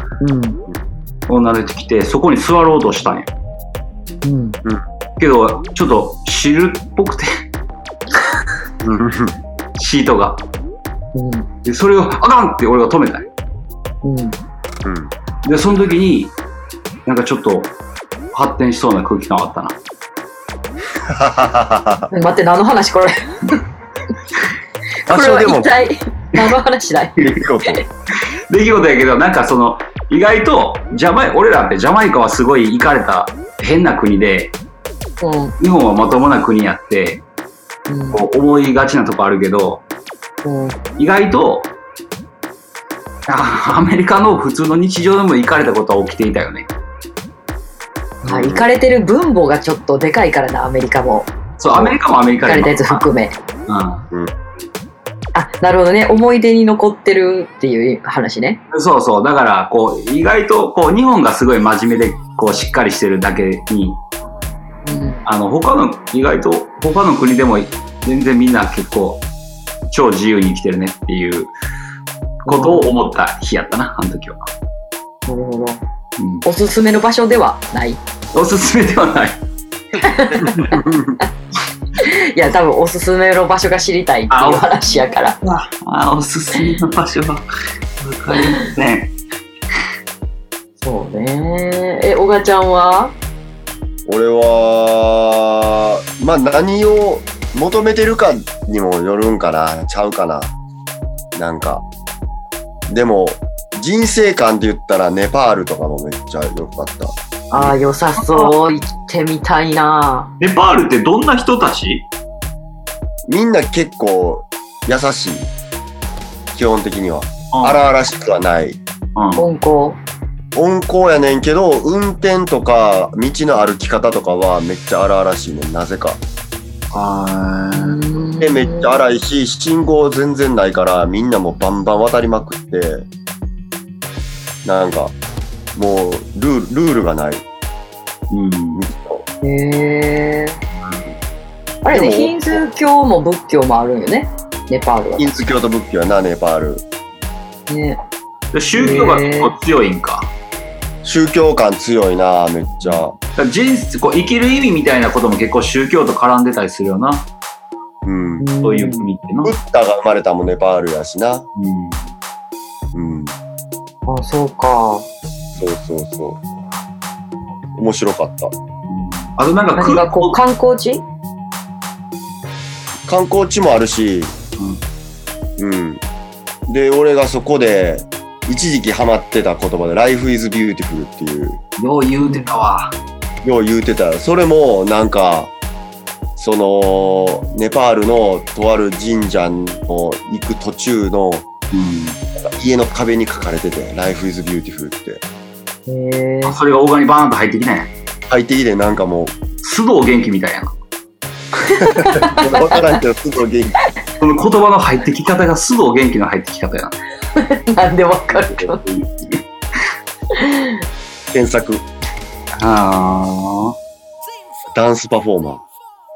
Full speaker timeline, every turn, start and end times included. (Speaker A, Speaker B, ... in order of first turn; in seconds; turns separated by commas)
Speaker A: 0.2-0.6, Speaker B: 1.3-3.3, Speaker A: 4.2-4.6, Speaker B: 5.2-7.3, Speaker B: 8.8-9.1, Speaker C: 9.0-9.3, Speaker B: 9.8-10.4, Speaker A: 11.2-11.5, Speaker B: 11.6-13.3, Speaker A: 14.0-14.4, Speaker C: 14.8-15.1, Speaker B: 15.4-16.4, Speaker B: 17.1-17.7, Speaker B: 18.3-19.8, Speaker C: 21.0-22.1, Speaker A: 22.1-23.6, Speaker A: 25.1-27.8, Speaker C: 25.1-25.8, Speaker C: 27.2-27.8, Speaker B: 28.5-34.5, Speaker A: 35.2-35.5, Speaker B: 35.6-37.2, Speaker A: 37.9-38.2, Speaker B: 38.1-39.8, Speaker A: 40.4-40.8, Speaker B: 41.0-41.7, Speaker B: 43.3-46.7, Speaker A: 48.2-53.4, Speaker C: 48.3-48.6, Speaker B: 51.6-53.0, Speaker B: 53.7-54.1, Speaker A: 55.3-58.6, Speaker B: 58.7-64.0, Speaker A: 64.9-65.2, Speaker B: 65.2-69.2, Speaker B: 69.9-71.5, Speaker B: 72.5-74.5, Speaker A: 72.5-72.9, Speaker A: 75.3-75.8, Speaker B: 76.2-76.5, Speaker A: 76.4-78.0, Speaker B: 78.3-79.4, Speaker A: 80.0-80.8, Speaker C: 80.5-81.2, Speaker A: 82.0-85.4, Speaker B: 84.3-84.7, Speaker B: 85.4-87.5, Speaker B: 88.0-89.2, Speaker A: 90.8-93.2, Speaker C: 94.1-100.5, Speaker C: 101.3-101.8, Speaker C: 102.9-107.1, Speaker A: 107.5-110.3, Speaker B: 107.6-108.5, Speaker B: 110.4-112.1, Speaker C: 113.3-115.5, Speaker C: 116.5-118.8, Speaker B: 117.5-117.8, Speaker B: 119.2-119.5, Speaker A: 119.4-120.0, Speaker C: 120.5-126.2, Speaker B: 126.9-128.0, Speaker A: 127.7-128.9, Speaker C: 128.4-133.1, Speaker C: 134.6-135.2, Speaker C: 135.8-137.4, Speaker B: 138.3-138.8, Speaker C: 138.7-139.2, Speaker A: 139.4-140.6, Speaker A: 141.8-145.4, Speaker C: 141.9-142.6, Speaker C: 145.2-146.8, Speaker A: 147.7-148.0, Speaker B: 148.5-150.3, Speaker A: 148.8-149.6, Speaker C: 151.0-153.2, Speaker B: 153.3-157.3, Speaker C: 158.1-158.5, Speaker A: 158.4-159.0, Speaker B: 158.6-159.5, Speaker C: 159.4-161.5, Speaker B: 161.6-162.1, Speaker C: 162.9-163.3, Speaker A: 164.1-165.1, Speaker C: 165.6-166.4, Speaker C: 167.8-168.5, Speaker B: 168.9-170.4, Speaker A: 169.8-171.0, Speaker C: 173.1-174.3, Speaker C: 175.6-176.0, Speaker C: 176.7-181.6, Speaker B: 181.8-183.0, Speaker A: 182.2-182.5, Speaker C: 183.4-185.5, Speaker C: 186.4-191.5, Speaker B: 191.7-192.2, Speaker C: 192.3-195.2, Speaker A: 195.9-196.6, Speaker B: 196.4-197.9, Speaker C: 198.3-199.4, Speaker B: 199.6-200.8, Speaker A: 201.7-202.9, Speaker C: 201.8-203.8, Speaker B: 204.2-207.0, Speaker A: 207.4-208.8, Speaker B: 208.6-209.4, Speaker A: 210.3-210.8, Speaker C: 211.3-211.8, Speaker B: 212.6-213.8, Speaker C: 214.7-215.6